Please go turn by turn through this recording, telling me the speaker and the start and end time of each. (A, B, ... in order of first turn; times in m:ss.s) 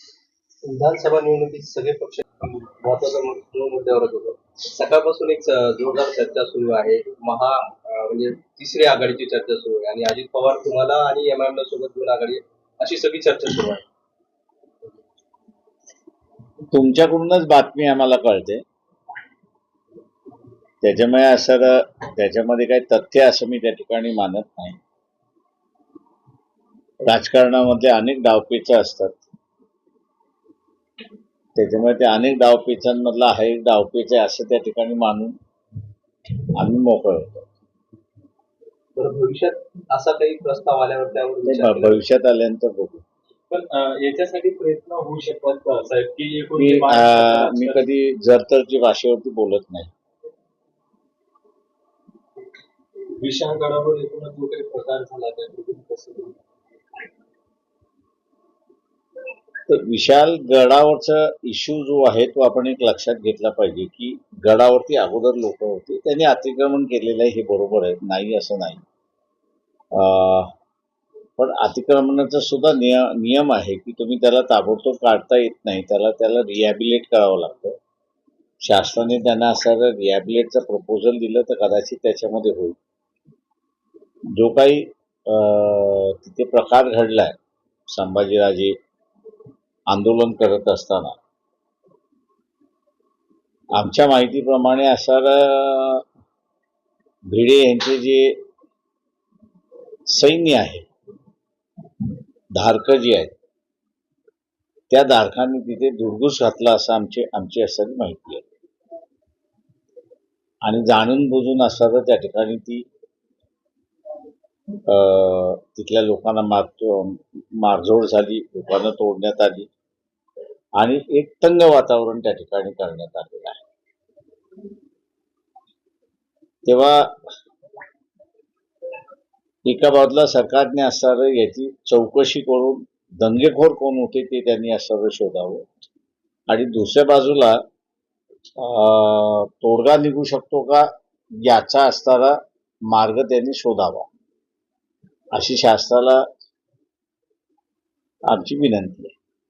0:00.6-0:13.8 A
0:16.7-0:18.6 B
0:20.8-0:24.8 B
0:27.0-0:29.2 B
0:31.6-0:35.4 B
0:36.6-0:37.4 B
0:39.0-0:42.0 A
0:41.5-0:43.0 B
0:43.5-0:47.8 C
0:46.6-0:49.9 B
0:53.2-0:56.4 C
0:59.7-1:08.8 B
1:09.9-1:10.5 B
1:11.4-1:17.8 B
1:18.6-1:22.8 B
1:24.3-1:27.4 B
1:27.9-1:28.8 B
1:29.9-1:31.2 B
1:33.7-1:36.0 B
1:37.3-1:38.4 B
1:40.1-1:40.8 B
1:42.5-1:43.3 B
1:44.9-1:48.4 B
1:50.6-1:52.8 B
1:54.9-1:59.7 B
2:00.8-2:03.6 B
2:06.7-2:07.2 B
2:09.6-2:15.7 B
2:16.5-2:17.6 B
2:18.6-2:20.9 B
2:21.4-2:24.1 B
2:25.3-2:26.2 B
2:28.3-2:29.1 B